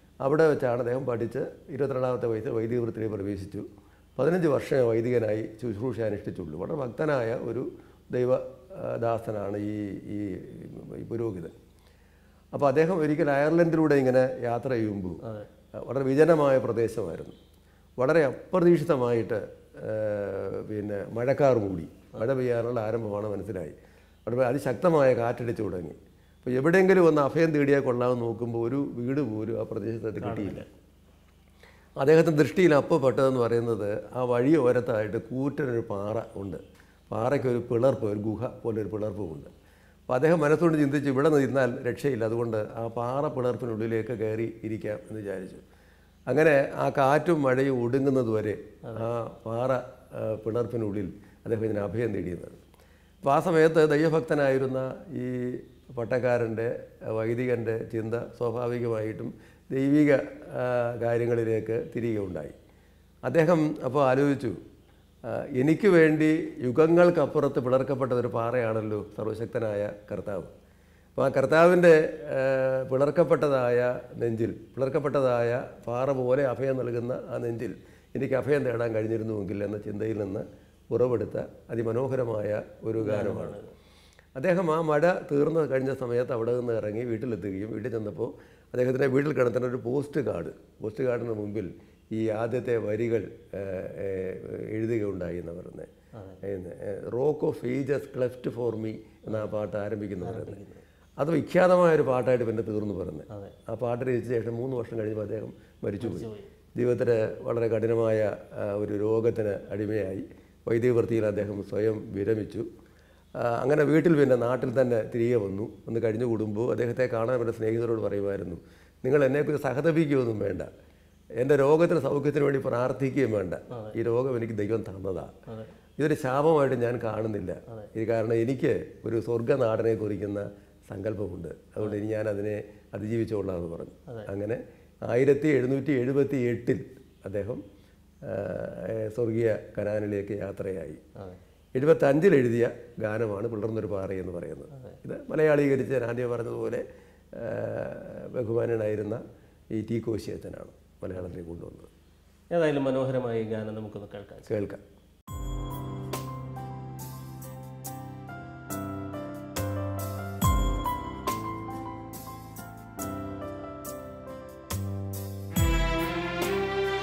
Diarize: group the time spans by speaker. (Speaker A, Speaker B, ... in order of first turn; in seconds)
Speaker A: 0.2-3.7, 4.2-11.5, 12.5-15.2, 15.8-17.4, 18.0-23.8, 24.3-30.6, 32.0-39.5, 40.1-45.6, 46.3-52.6, 53.2-62.5, 63.3-64.6, 65.3-70.5, 71.2-83.6, 84.4-95.9, 96.4-100.6, 101.2-112.7, 113.4-120.7, 121.4-125.3, 126.0-137.6, 138.3-141.0, 141.8-146.8, 147.3-149.2, 149.8-151.9, 154.5-154.8
Speaker B: 30.2-30.7, 83.0-83.7, 100.2-100.8, 103.3-103.6, 106.0-106.5, 152.5-154.5